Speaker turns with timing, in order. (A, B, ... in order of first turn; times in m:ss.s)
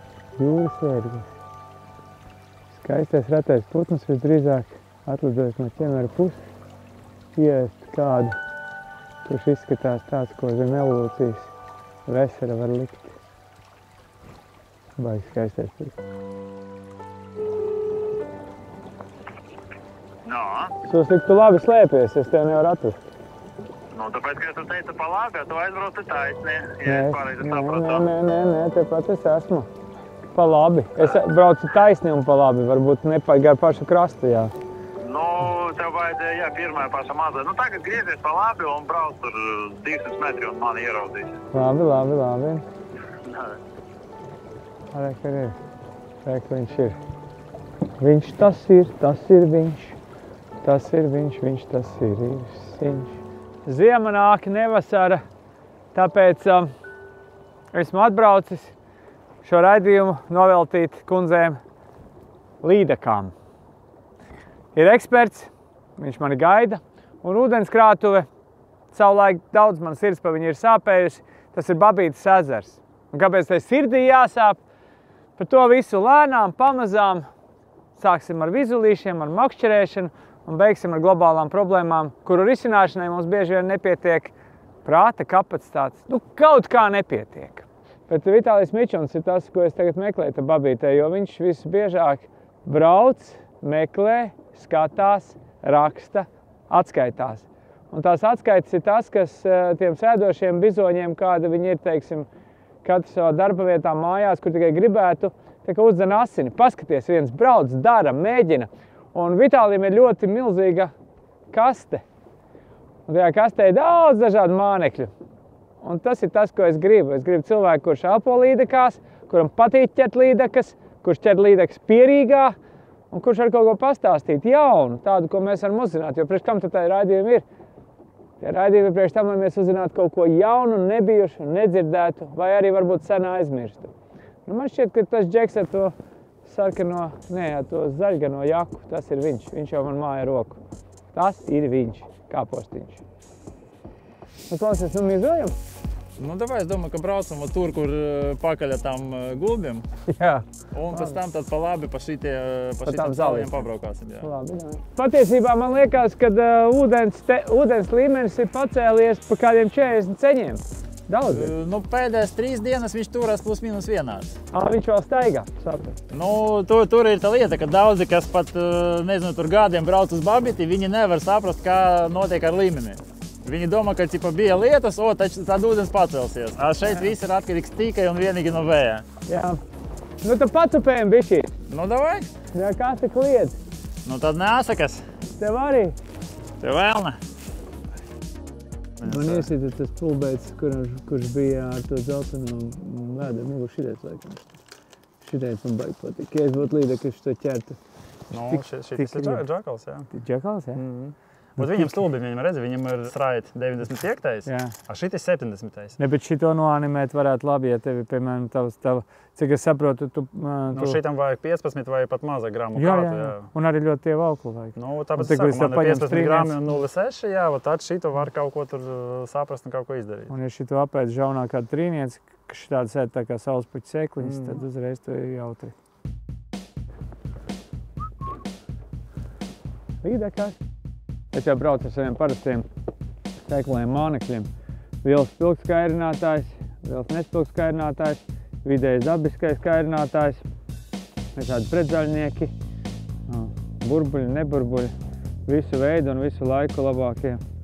0:00.4-0:01.3 A
0:02.7-0:06.4 A
0:07.4-0:08.3 A
0:09.2-0:11.5 A
0:12.0-0:13.1 A
0:15.0-0:16.0 A
0:20.3-0:20.7 B
0:20.3-0:20.6 C
0:20.8-0:23.0 A
0:24.0-0:24.8 B
0:24.0-0:27.8 C
0:25.4-0:26.0 B
0:26.6-0:28.0 B
0:26.8-0:29.7 A
0:30.3-0:34.5 A
0:35.0-0:41.3 C
0:35.1-0:35.6 B
0:41.5-0:42.6 A
0:44.9-0:45.6 A
0:46.2-0:47.0 A
0:48.0-0:50.0 A
0:50.6-0:55.2 A
0:55.9-0:56.7 A
0:57.7-0:58.7 A
0:59.4-1:01.6 A
1:02.6-1:03.3 A
1:04.7-1:08.3 A
1:08.9-1:14.6 A
1:15.4-1:17.2 A
1:18.0-1:24.3 A
1:24.8-1:42.3 A
1:42.8-1:50.9 A
1:51.5-1:52.0 A
1:53.1-1:55.1 A
1:55.8-2:02.6 A
2:03.1-2:07.4 A
2:08.4-2:13.9 A
2:14.5-2:15.9 A
2:16.4-2:20.6 A
2:21.1-2:23.0 A
2:24.5-2:25.6 A
2:26.2-2:29.9 B
2:30.1-2:31.2 A
2:30.7-2:34.3 B
2:32.8-2:33.6 A
2:34.2-2:41.5 A
2:41.3-2:44.4 B
2:44.5-2:46.0 A
2:46.1-2:59.0 B
2:59.3-2:59.6 A
3:00.2-3:01.5 A
3:01.7-3:02.3 B
3:02.5-3:03.6 A
3:04.0-3:05.1 B
3:05.4-3:05.9 A
3:06.6-3:07.2 B
3:09.0-3:09.4 B
3:09.0-3:14.6 A
3:15.2-3:17.8 A
3:18.3-3:19.4 A
3:18.3-3:20.1 B
3:20.1-3:20.8 A
3:20.7-3:26.0 B
3:21.6-3:21.9 A
3:24.4-3:24.7 A
3:26.0-3:31.0 A
3:30.7-3:33.5 B
3:32.7-3:36.7 A
3:34.7-3:40.3 B
3:40.3-3:45.7 A
3:44.2-3:44.6 B
3:50.0-3:50.6 A
3:51.3-3:52.7 A
3:53.5-3:54.5 A
3:55.0-4:00.4 A
4:01.4-4:02.5 A
4:03.3-4:04.9 A
4:05.5-4:07.4 A